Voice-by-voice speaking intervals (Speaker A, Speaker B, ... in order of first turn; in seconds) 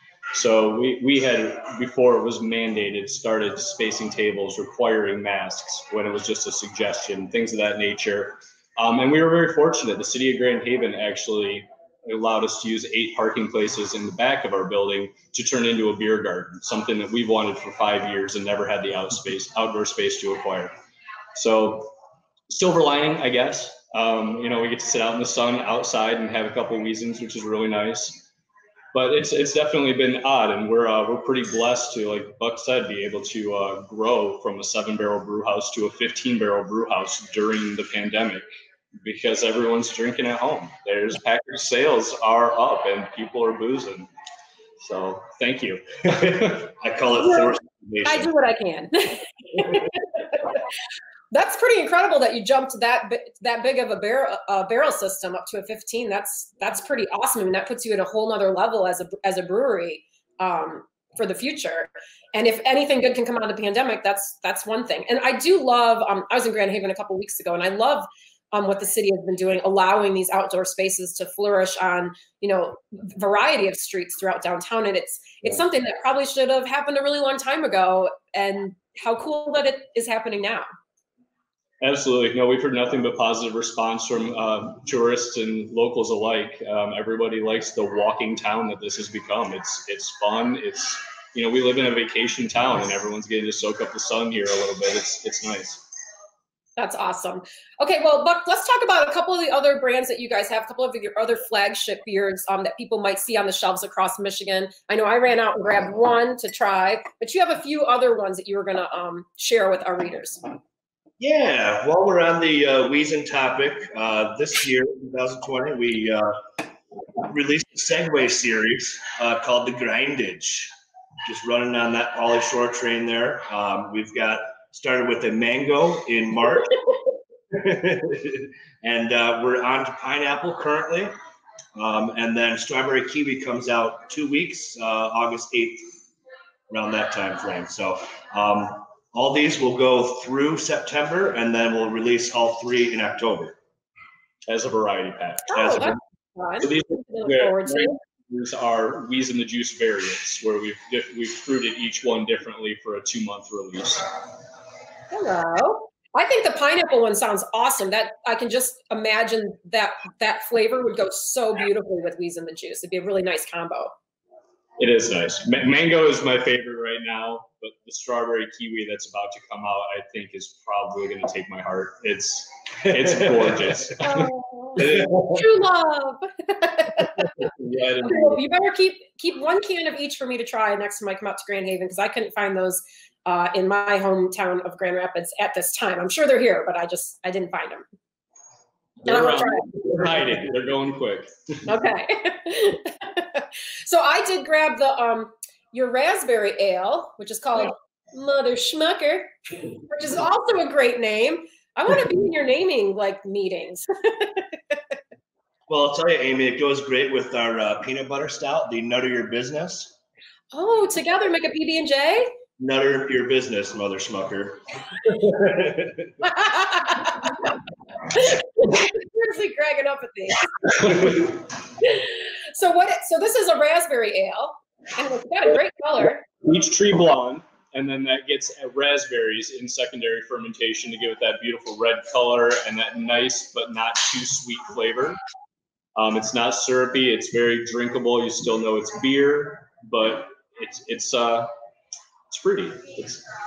Speaker A: 0.3-20.7, 21.3-21.9, 22.5-28.3, 28.9-38.4, 39.0-44.1, 44.8-46.7, 81.8-95.9, 144.4-145.8, 146.6-154.1, 164.8-175.0, 177.4-178.4, 189.0-191.3, 226.4-235.2, 235.9-241.5, 242.3-243.2
Speaker B: 46.6-48.3, 111.2-116.4, 117.3-120.7, 121.2-126.8, 127.5-131.1, 131.7-135.9, 136.7-143.6, 145.5-146.0, 205.7-209.9, 212.6-216.1
Speaker C: 47.2-47.5, 48.0-50.4, 51.3-80.7, 96.8-110.4, 145.5-147.9, 155.1-163.9, 174.0-177.3, 178.0-187.8, 189.1-189.7, 191.7-204.8, 210.5-212.3, 216.2-217.5, 218.0-221.2, 221.8-226.2